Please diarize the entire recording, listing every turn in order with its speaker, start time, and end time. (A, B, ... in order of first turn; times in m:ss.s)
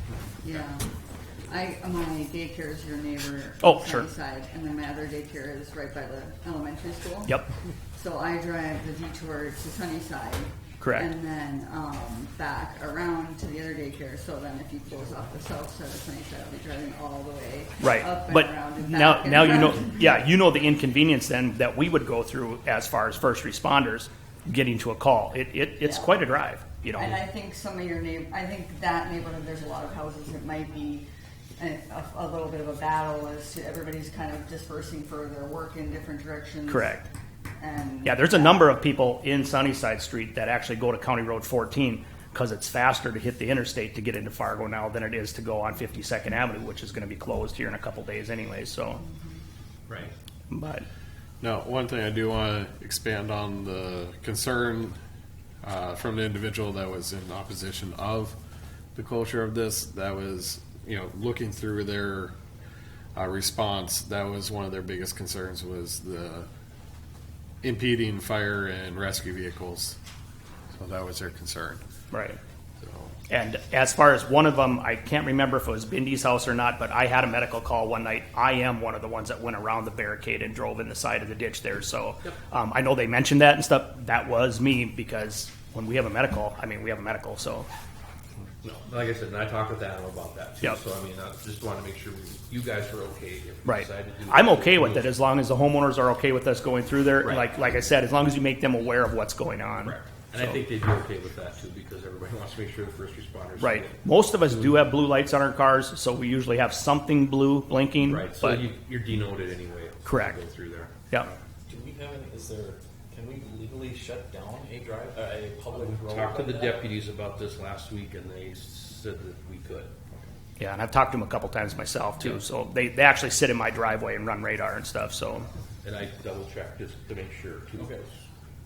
0:00.4-0:00.9 A
0:01.5-0:20.1 A
0:03.6-0:04.1 B
0:10.8-0:11.1 B
0:17.8-0:27.2 B
0:25.8-0:26.2 A
0:26.9-0:31.0 A
0:31.6-0:37.0 A
0:36.7-0:37.0 B
0:37.6-0:38.7 A
0:38.0-0:49.0 B
0:49.0-0:49.3 A
0:49.9-0:50.1 C
0:50.5-0:50.8 B
0:51.4-0:55.0 D
0:55.6-0:58.4 D
0:58.9-1:02.3 D
1:03.1-1:06.5 D
1:07.6-1:10.0 D
1:10.7-1:11.8 D
1:12.1-1:12.4 B
1:12.8-1:13.1 D
1:13.3-1:27.7 B
1:28.6-1:35.1 C
1:33.6-1:40.6 B
1:37.2-1:37.5 C
1:39.8-1:44.8 C
1:43.6-1:48.6 B
1:48.0-1:51.4 C
1:50.0-1:50.4 B
1:51.7-1:56.7 E
1:55.7-1:59.9 C
2:00.6-2:05.5 B
2:05.8-2:08.0 C